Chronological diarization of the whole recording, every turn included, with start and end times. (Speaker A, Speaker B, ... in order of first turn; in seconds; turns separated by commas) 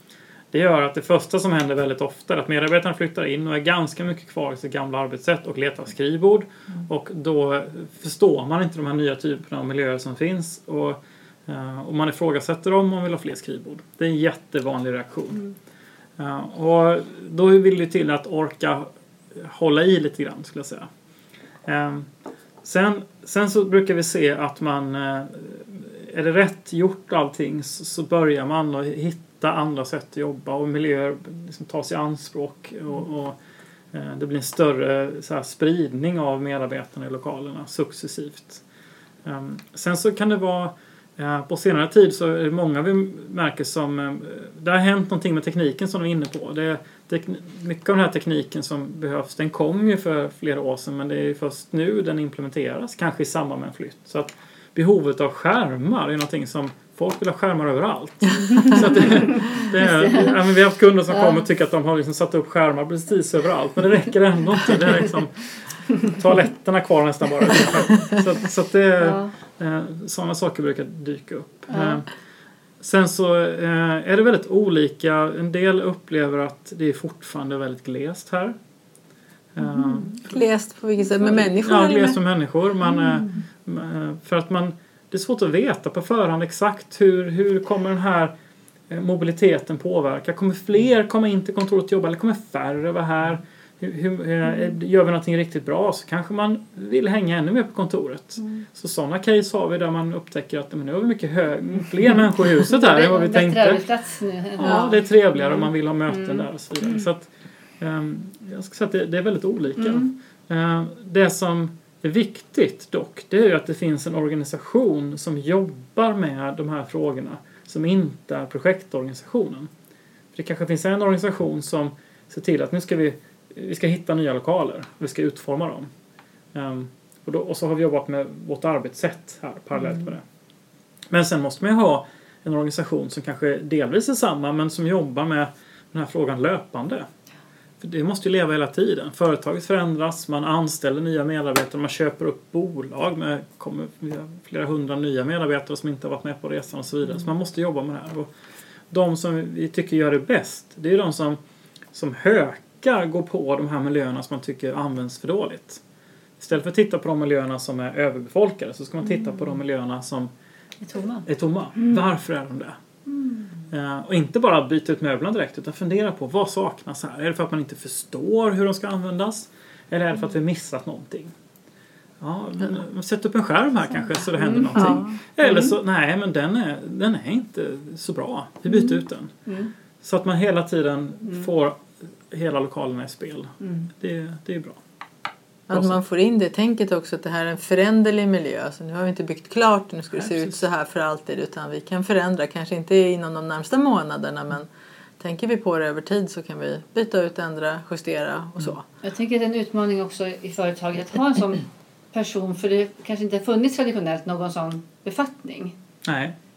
Speaker A: 0.5-15.5, Speaker A: 16.2-20.9, Speaker A: 21.6-22.1, Speaker A: 22.6-33.4, Speaker A: 33.9-38.6, Speaker A: 39.2-72.1, Speaker B: 58.5-60.4, Speaker B: 61.1-61.4, Speaker B: 69.0-69.3, Speaker B: 71.7-72.0, Speaker A: 72.8-78.5, Speaker A: 79.5-80.4, Speaker B: 79.7-80.1, Speaker C: 80.2-82.2, Speaker A: 81.3-88.3, Speaker A: 88.9-103.8, Speaker B: 102.7-107.1, Speaker A: 104.6-107.3, Speaker A: 107.8-119.7, Speaker B: 109.8-110.1, Speaker A: 120.3-125.9, Speaker A: 126.5-130.2, Speaker B: 129.8-130.1, Speaker A: 131.1-137.1, Speaker A: 137.8-148.3, Speaker A: 148.9-151.4, Speaker A: 151.9-155.8, Speaker A: 156.4-160.3, Speaker B: 160.8-161.2, Speaker A: 161.2-162.8, Speaker B: 163.1-163.5, Speaker A: 163.7-171.3, Speaker A: 172.2-179.3, Speaker B: 174.4-175.7, Speaker B: 178.7-178.9, Speaker B: 179.5-179.7, Speaker A: 180.0-184.8, Speaker B: 183.6-183.9, Speaker C: 185.7-198.8, Speaker A: 185.7-186.0, Speaker A: 190.2-190.6, Speaker B: 199.0-205.8, Speaker A: 206.0-206.3